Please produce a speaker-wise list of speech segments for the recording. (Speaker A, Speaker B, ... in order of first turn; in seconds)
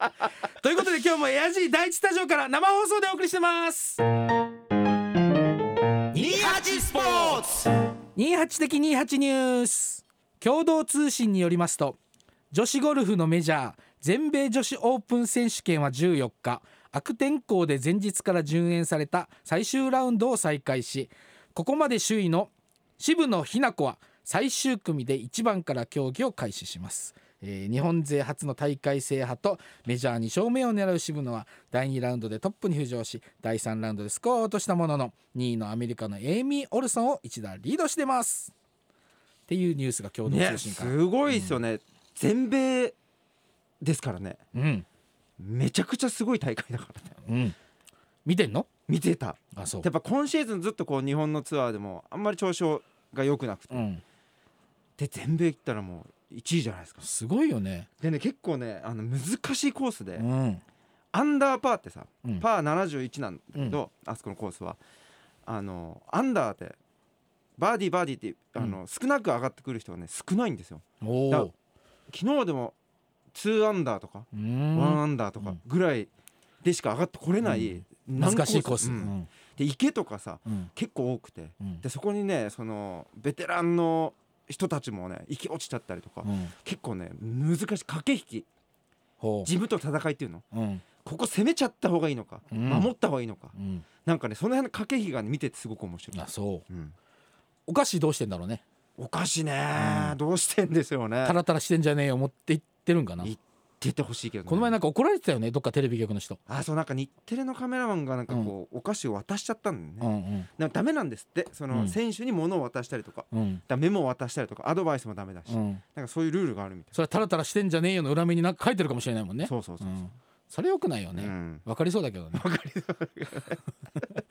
Speaker A: 0.5-4.0, 6.1-7.4, 8.1-12.0, 12.5-38.5, 39.5-41.6, 44.5-44.9, 47.2-47.5, 48.2-48.7, 49.5-49.9, 53.7-54.0, 57.0-57.9, 60.2-60.6, 71.0-71.5, 74.3-75.6, 77.4-79.3, 86.2-86.5, 89.2-89.5, 90.5-90.8, 92.5-92.9, 93.5-93.8, 96.1-96.6, 97.7-98.6, 99.7-100.2, 101.2-103.3, 104.5-106.4, 110.0-110.5, 111.7-112.0, 113.3-113.6, 115.5-115.8, 116.9-122.4
Speaker B: 6.2-7.7, 40.2-43.0, 43.8-44.4, 45.4-47.1, 48.9-53.9, 55.0-57.0, 58.0-60.2, 61.1-64.8, 65.5-66.8, 67.6-71.5, 72.1-72.7, 73.3-76.1, 76.6-88.5, 89.4-90.4, 91.0-93.5, 94.0-96.9, 99.0-101.4, 103.2-104.8, 106.5-110.1, 110.6-117.0, 119.4-119.9, 121.1-121.6, 122.3-123.6